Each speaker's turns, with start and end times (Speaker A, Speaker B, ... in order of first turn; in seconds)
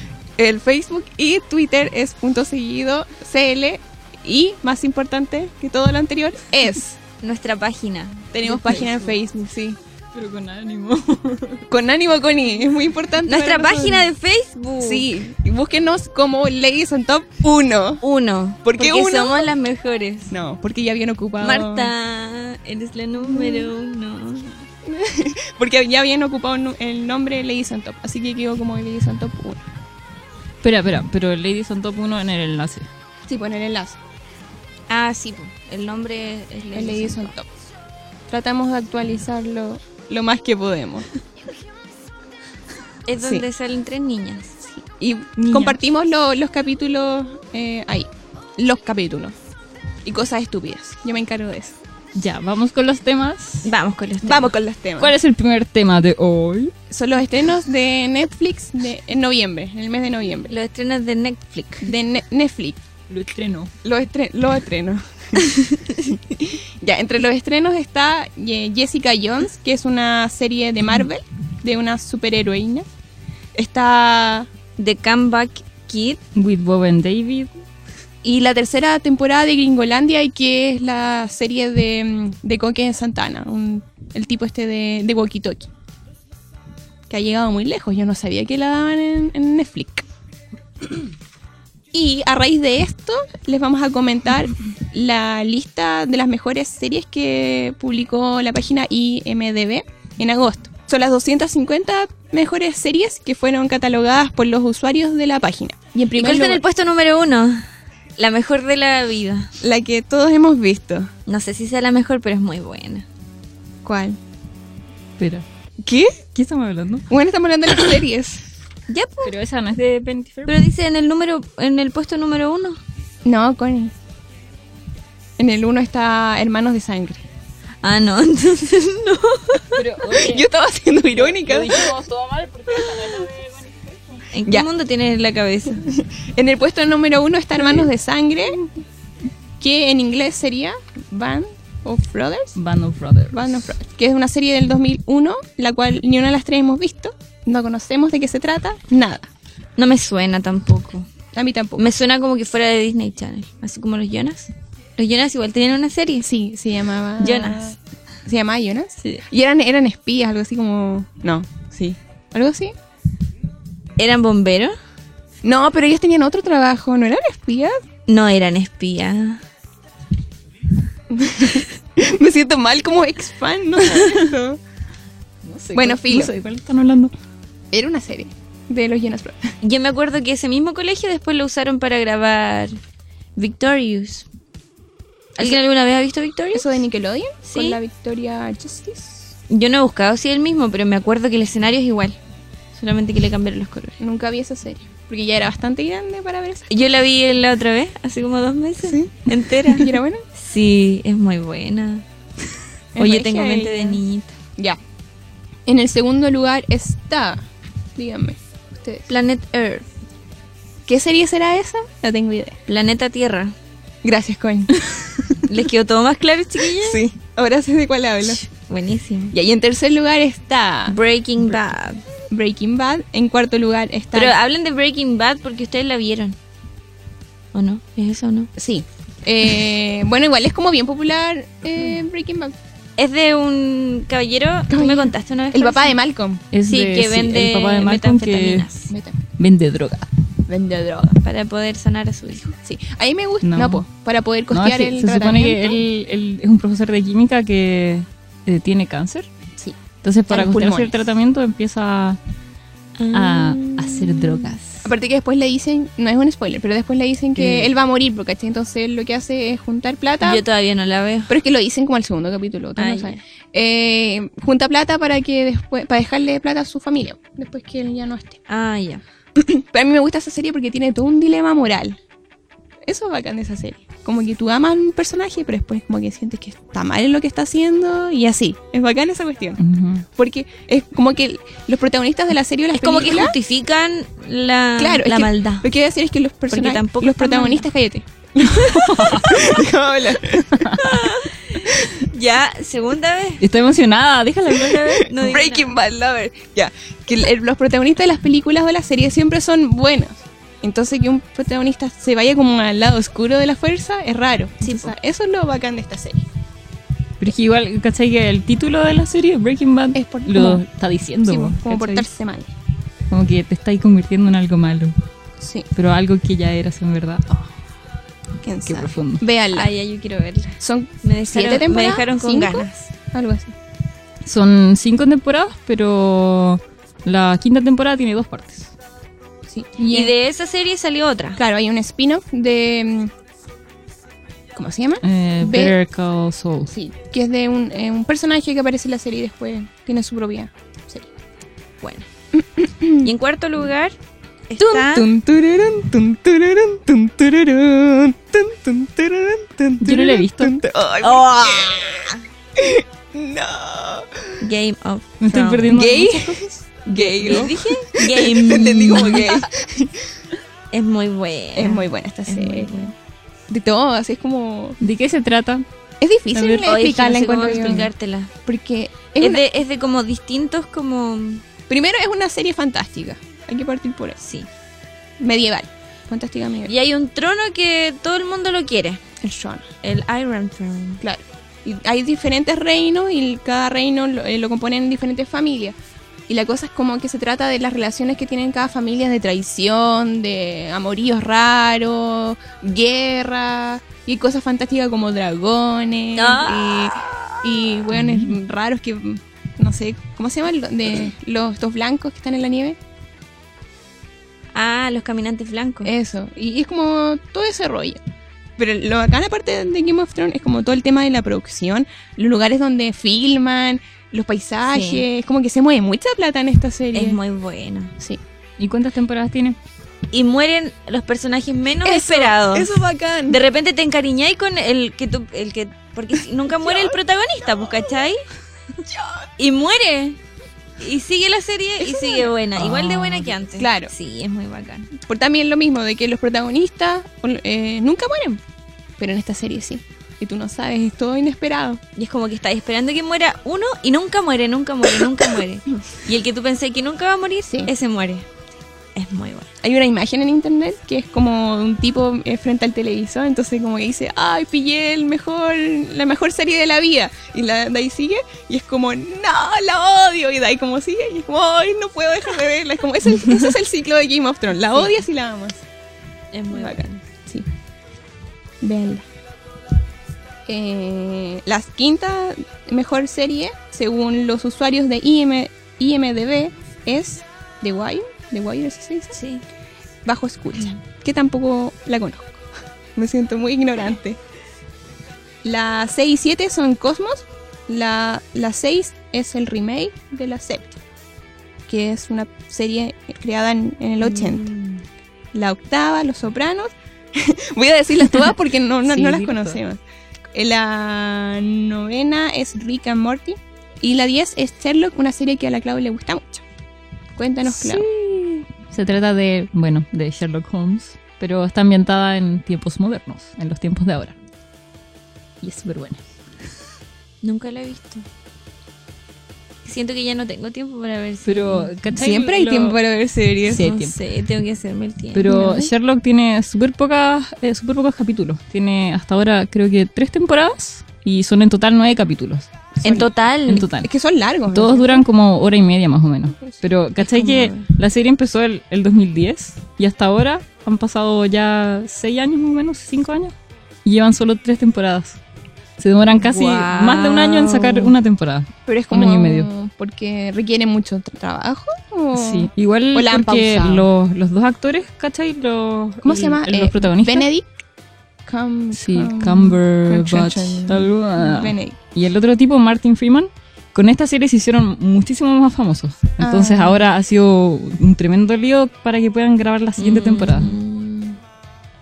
Speaker A: 0.4-7.0, 8.3-9.8, 11.7-14.1, 14.8-18.0, 18.6-19.5, 20.3-21.9, 23.3-23.7, 24.9-29.6, 33.3-34.0, 36.8-37.5, 38.3-41.1, 43.2-43.5, 44.8-49.3, 50.0-51.8, 54.2-55.1, 56.9-60.5, 61.8-62.8, 63.8-72.9, 73.5-74.5, 78.2-85.7, 87.1-90.0, 91.9-106.6, 109.6-111.1, 113.8-114.2, 115.8-116.2, 117.1-118.4, 123.2-123.9, 125.4-127.2, 130.1-131.9, 135.9-138.7, 139.6-142.6, 143.3-149.3, 151.3-151.9, 156.2-162.8, 165.4-167.8, 171.1-174.6, 175.8-176.3, 177.7-179.5, 186.5-189.3, 194.0-196.7, 198.8-200.2, 202.9-204.0, 205.7-207.4, 208.0-209.1, 210.9-212.6, 214.0-215.4, 216.8-218.4, 219.3-221.0, 222.3-224.3, 228.6-232.5, 234.7-236.4, 238.9-239.2, 240.5-241.2, 242.6-245.8, 250.3-251.0, 254.8-260.4, 261.3-268.4, 269.4-272.0, 272.9-279.6, 280.1-283.4, 284.8-290.7, 294.7-306.3, 309.9-310.6, 311.2-312.5, 315.4-315.7, 318.4-319.7, 320.6-323.6, 329.5-330.1, 331.4-333.1, 334.5-335.8, 336.7-341.1, 342.4-343.1, 344.6-352.0, 352.6-354.3, 355.7-359.9, 361.6-362.9, 363.5-364.8, 366.0-367.9, 368.5-369.4, 371.7-374.2, 375.2-376.7, 379.2-379.7, 381.0-385.8, 386.3-402.8, 405.9-408.0, 408.6-417.2, 421.8-423.4, 426.5-427.0, 428.9-429.2, 431.8-432.3, 433.6-433.9, 435.0-438.4, 439.0-441.8, 449.6-465.6, 466.5-467.5, 468.6-469.1, 470.5-479.2, 480.1-484.2, 485.4-490.8, 491.7-494.5, 495.3-499.8, 500.3-506.4, 507.2-507.9, 522.0-523.7, 525.3-525.7, 532.8-533.1, 533.8-535.0, 548.7-553.9, 556.0-557.6, 558.3-561.8, 566.2-566.9
Speaker B: 7.2-9.1, 13.3-15.1, 18.0-20.3, 21.4-24.7, 34.9-37.3, 43.1-44.6, 53.6-54.5, 60.5-61.9, 74.8-76.2, 106.2-109.5, 111.3-113.1, 118.9-119.3, 120.5-122.8, 127.8-129.9, 134.3-135.9, 149.8-151.1, 151.8-156.3, 157.2-157.8, 164.0-164.8, 168.1-169.4, 179.6-182.8, 183.4-184.3, 185.4-186.8, 187.4-187.8, 189.5-192.2, 192.8-194.0, 196.7-202.1, 203.0-204.4, 209.1-209.9, 212.7-213.6, 215.4-217.0, 218.3-219.3, 220.9-222.0, 224.1-226.4, 227.5-228.5, 233.0-236.0, 236.7-238.9, 241.2-242.5, 253.0-254.5, 260.2-261.3, 262.8-263.2, 268.5-269.0, 282.7-285.7, 286.5-287.7, 289.2-289.5, 290.8-293.4, 294.9-295.7, 304.6-304.9, 319.5-322.9, 329.9-331.4, 341.8-342.1, 343.0-344.0, 344.5-345.1, 351.0-352.2, 354.4-355.8, 356.9-359.4, 360.7-362.9, 366.6-368.3, 369.2-371.4, 374.2-374.5, 376.7-379.0, 379.8-381.0, 396.1-397.7, 404.5-405.9, 414.7-415.1, 416.9-417.9, 420.1-428.2, 429.4-430.2, 430.8-434.9, 441.9-448.3, 448.9-449.5, 466.3-467.0, 479.1-479.4, 494.3-494.7, 517.2-518.0, 519.6-521.7, 523.5-525.5, 532.8-533.7, 537.0-537.7, 546.2-547.9, 569.8-571.2
Speaker C: 8.5-9.2, 10.1-11.7, 30.6-32.9, 45.4-45.8, 52.1-53.7, 55.0-56.7, 63.1-63.7, 76.3-77.7, 115.2-115.5, 116.3-117.1, 119.2-120.7, 129.7-130.5, 131.1-134.2, 142.6-143.5, 175.4-177.1, 236.5-238.7, 239.4-240.1, 243.4-243.8, 244.5-249.3, 250.0-252.2, 253.1-254.9, 257.4-257.7, 279.6-280.1, 288.6-289.5, 290.5-290.9, 293.4-295.2, 307.2-312.1, 313.1-314.9, 315.7-317.3, 318.6-319.2, 324.2-328.7, 335.0-336.7, 349.8-350.6, 355.2-356.4, 364.8-365.7, 366.3-366.8, 367.5-367.9, 397.9-398.4, 418.6-419.6, 432.6-433.4, 498.9-499.6, 507.5-514.2, 515.4-516.0, 521.2-522.8, 523.5-524.0, 525.1-532.5, 533.5-533.9, 534.5-543.3, 543.9-545.2, 545.8-549.5, 552.1-557.3, 558.7-570.5